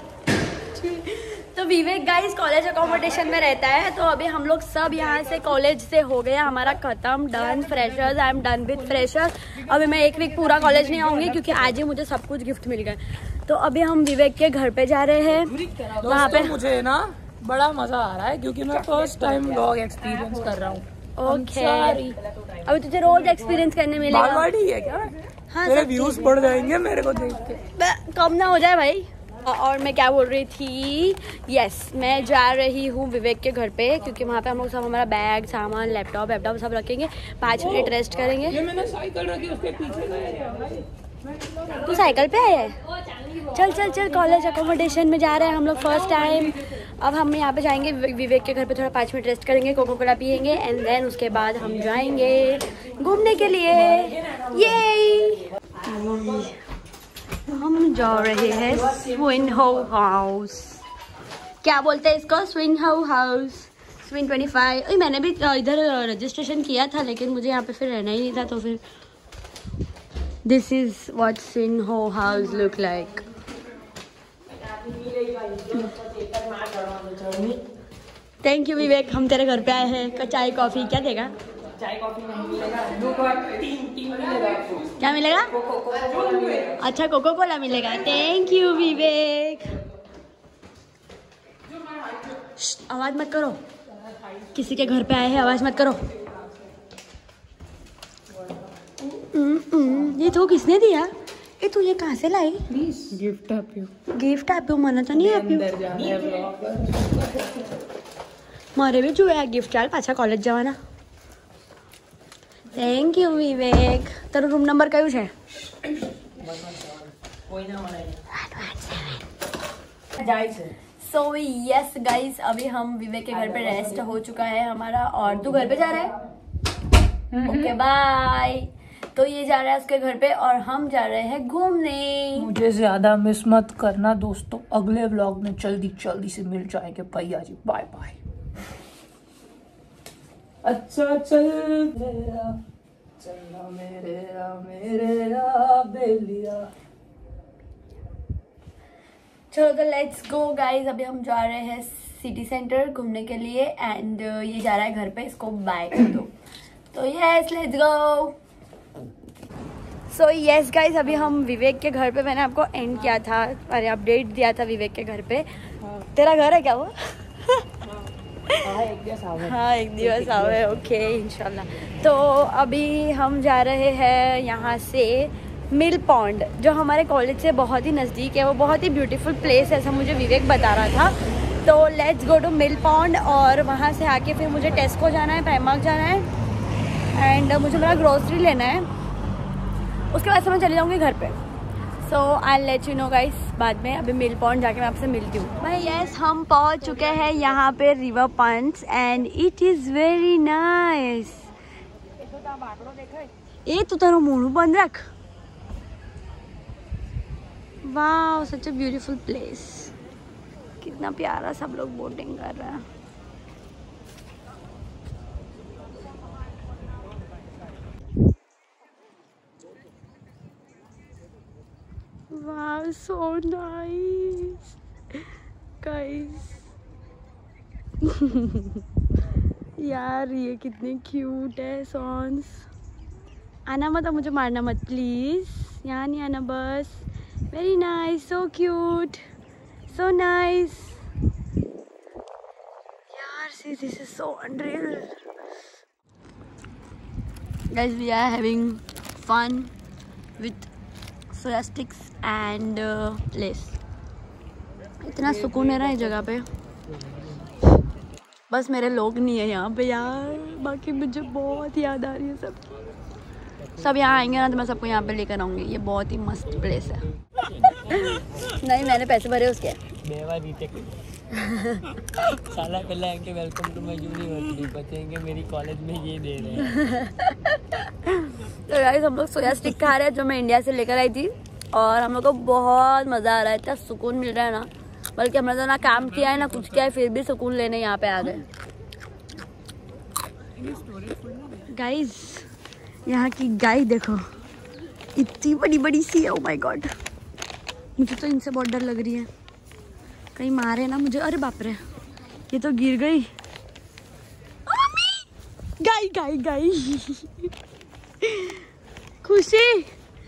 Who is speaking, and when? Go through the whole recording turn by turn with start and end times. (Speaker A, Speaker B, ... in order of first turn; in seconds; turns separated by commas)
Speaker A: 0.7-16.6, Speaker B: 16.0-22.2, Speaker A: 21.2-22.1, Speaker A: 22.6-24.5, Speaker B: 24.1-25.1, Speaker A: 25.5-26.4, Speaker B: 25.6-27.6, Speaker A: 27.8-38.6, Speaker B: 37.6-37.9, Speaker B: 38.5-40.8, Speaker A: 41.8-42.8, Speaker A: 43.3-56.6, Speaker A: 57.5-60.8, Speaker A: 61.6-68.8, Speaker A: 70.5-73.2, Speaker C: 74.8-77.6, Speaker A: 78.4-81.3, Speaker C: 81.8-84.8, Speaker A: 85.0-85.5, Speaker C: 85.7-86.6, Speaker A: 86.8-89.8, Speaker A: 92.6-93.6, Speaker A: 94.5-96.0, Speaker A: 99.1-102.7, Speaker B: 102.7-103.9, Speaker A: 104.1-106.0, Speaker B: 105.2-107.4, Speaker A: 108.8-110.8, Speaker A: 112.7-115.3, Speaker C: 116.6-116.9, Speaker C: 117.5-118.1, Speaker A: 118.3-119.3, Speaker C: 120.2-120.7, Speaker A: 121.0-126.2, Speaker B: 127.3-127.7, Speaker A: 127.5-132.5, Speaker B: 132.4-138.2, Speaker B: 140.6-142.6, Speaker B: 143.2-146.7, Speaker A: 149.5-156.3, Speaker A: 156.9-158.4, Speaker A: 160.1-167.7, Speaker A: 168.5-168.8, Speaker C: 168.7-169.5, Speaker A: 169.4-186.3, Speaker C: 170.1-170.6, Speaker A: 187.2-188.8, Speaker A: 190.1-191.4, Speaker A: 192.0-201.5, Speaker A: 203.7-205.1, Speaker A: 207.8-209.9, Speaker A: 210.8-212.8, Speaker A: 222.3-224.7, Speaker A: 225.8-226.6, Speaker A: 228.1-228.8, Speaker A: 229.8-232.7, Speaker A: 233.7-239.2, Speaker A: 239.9-241.0, Speaker A: 243.1-245.2, Speaker A: 247.7-249.7, Speaker A: 250.4-250.7, Speaker A: 251.3-253.8, Speaker A: 255.0-256.4, Speaker A: 258.5-262.6, Speaker A: 263.8-267.1, Speaker A: 267.8-269.8, Speaker C: 270.0-270.9, Speaker A: 271.3-271.9, Speaker C: 272.3-276.8, Speaker A: 276.6-288.5, Speaker A: 291.6-292.5, Speaker A: 293.1-294.2, Speaker A: 295.1-296.9, Speaker A: 298.0-299.3, Speaker A: 300.4-301.8, Speaker A: 302.5-303.3, Speaker A: 304.7-305.3, Speaker A: 305.8-307.5, Speaker A: 308.2-308.7, Speaker A: 309.2-309.9